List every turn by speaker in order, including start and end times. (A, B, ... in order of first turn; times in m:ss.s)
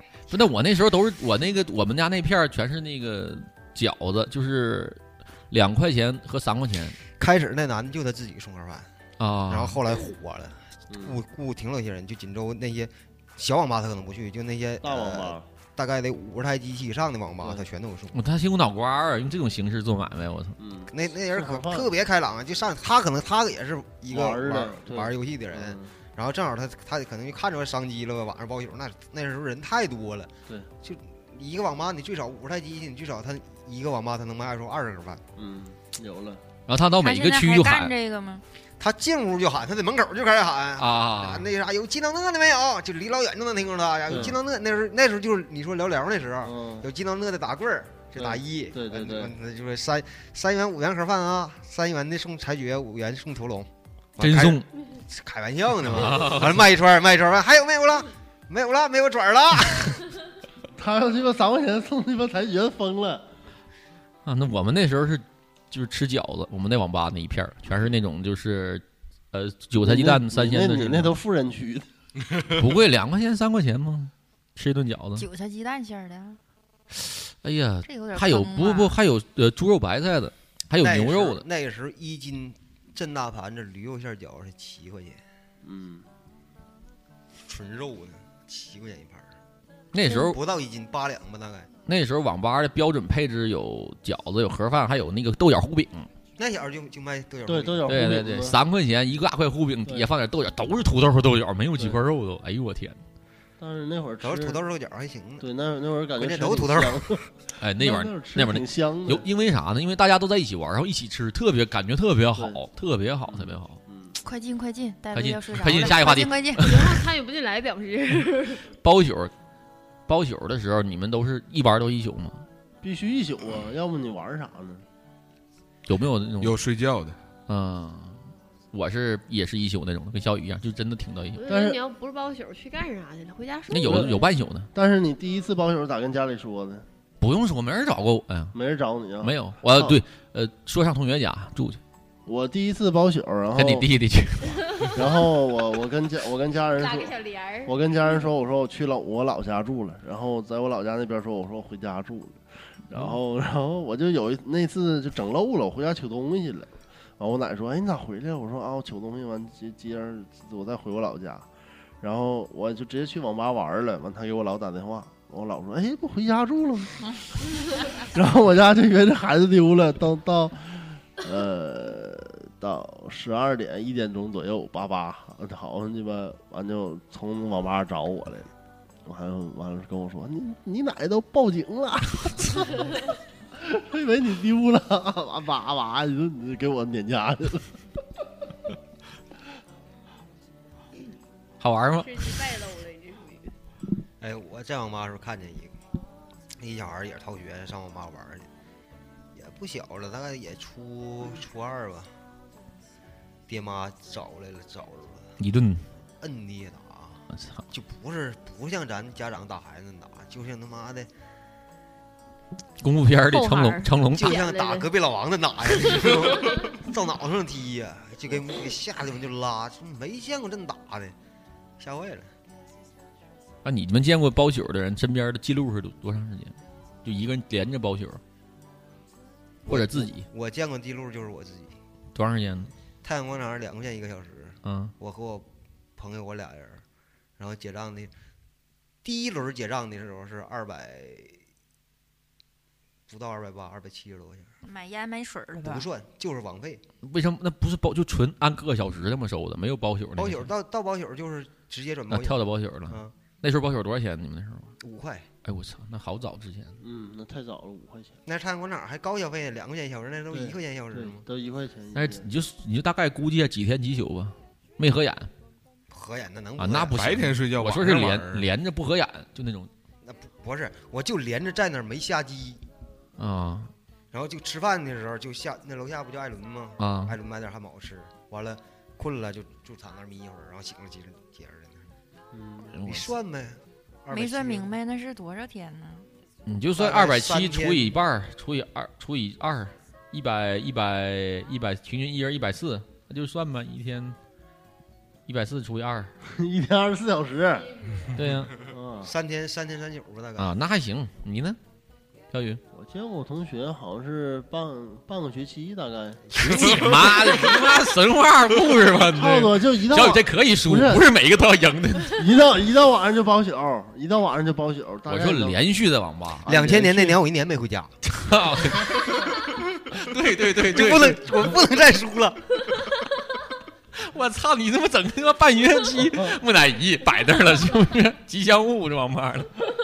0:00.3-0:07.0 A
0:07.2-0:08.9 B
0:09.2-0:09.8 A
0:09.5-0:18.2 B
0:10.9-0:11.2 C
0:14.8-0:15.5 C
0:17.4-0:17.7 C
0:18.1-0:20.6 A
0:20.6-0:21.9 C
0:20.9-0:30.3 B
0:24.1-0:25.9 C
0:30.8-0:35.2 B
0:35.4-0:36.4 C
0:36.7-0:37.9 A
0:37.0-0:38.4 D
0:38.8-1:00.0 B
0:40.8-0:41.5 A
0:44.1-0:44.4 C
0:46.4-0:46.9 C
0:48.2-0:49.3 C
0:54.2-0:54.6 A
0:55.8-0:56.6 A
1:00.8-1:03.2 C
1:04.2-1:11.1 A
1:09.8-1:11.9 C
1:12.5-1:15.3 A
1:15.2-1:16.4 D
1:16.9-1:21.4 A
1:17.8-1:19.0 D
1:20.8-1:25.2 B
1:25.6-1:26.0 C
1:27.4-1:29.3 B
1:29.9-1:30.4 A
1:30.1-1:31.7 B
1:31.8-1:36.1 A
1:36.4-1:37.8 B
1:37.4-1:38.6 C
1:37.9-1:43.0 A
1:43.6-1:44.6 C
1:44.2-1:45.4 B
1:45.4-1:49.3 C
1:46.2-1:47.1 B
1:47.6-1:53.8 A
1:53.3-1:54.2 C
1:54.2-1:56.6 D
1:55.1-1:57.0 A
1:56.6-1:58.6 E
1:58.8-1:59.3 A
2:00.1-2:02.4 A
2:02.8-2:04.8 C
2:05.9-2:06.6 A
2:06.4-2:07.2 F
2:07.5-2:08.2 A
2:08.7-2:11.4 A
2:11.4-2:14.2 E
2:11.4-2:11.8 C
2:13.7-2:14.7 A
2:13.8-2:14.2 C
2:14.7-2:16.8 C
2:17.2-2:18.6 A
2:18.5-2:20.0 C
2:19.2-2:21.8 A
2:22.2-2:23.9 C
2:23.5-2:24.9 A
2:24.9-2:41.5 C
2:26.7-2:27.7 E
2:42.0-2:58.5 C
2:59.0-3:02.9 C
3:03.5-3:07.7 C
3:11.6-3:12.4 A
3:12.0-3:13.5 E
3:14.2-3:15.8 B
3:16.6-3:18.5 B
3:19.3-3:22.1 B
3:23.5-3:25.3 B
3:25.4-3:25.8 A
3:26.2-3:31.1 B
3:27.3-3:27.6 A
3:32.8-3:34.4 A
3:33.3-3:34.9 E
3:34.1-3:41.1 B
3:35.9-3:36.7 E
3:41.8-3:42.3 B
3:43.6-3:48.2 A
3:49.6-3:50.3 A
3:49.6-3:51.8 B
3:52.1-3:52.7 A
3:53.0-3:56.8 B
3:54.6-3:54.9 A
3:57.4-3:58.1 B
3:59.0-4:01.4 B
4:03.1-4:04.5 B
4:04.6-4:05.9 D
4:05.6-4:06.8 B
4:07.0-4:10.5 A
4:10.2-4:13.1 B
4:12.1-4:14.7 A
4:14.8-4:15.3 B
4:15.4-4:16.8 A
4:16.8-4:18.2 C
4:18.2-4:21.2 B
4:20.3-4:22.3 C
4:21.9-4:25.3 A
4:25.9-4:27.3 B
4:26.6-4:29.7 A
4:26.9-4:28.5 F
4:30.0-4:32.6 B
4:33.2-4:33.7 A
4:34.1-4:41.8 B
4:36.8-4:37.2 A
4:42.3-4:42.7 C
4:42.7-4:43.1 A
4:42.8-4:44.7 B
4:44.1-4:46.1 D
4:46.4-4:54.2 A
4:46.8-4:48.0 B
4:55.3-4:56.1 A
4:56.2-4:57.7 C
4:58.2-4:58.5 A
4:58.6-4:59.1 C
4:59.0-5:00.5 B
5:00.4-5:01.6 A
5:02.3-5:02.6 A
5:02.7-5:06.3 C
5:06.3-5:12.2 A
5:06.5-5:06.8 F
5:09.1-5:11.1 C
5:12.1-5:15.6 C
5:15.1-5:16.6 A
5:16.4-5:17.2 C
5:16.4-5:17.9 B
5:18.1-5:19.4 A
5:19.9-5:21.6 A
5:20.6-5:23.0 B
5:24.0-5:29.5 A
5:26.0-5:26.4 C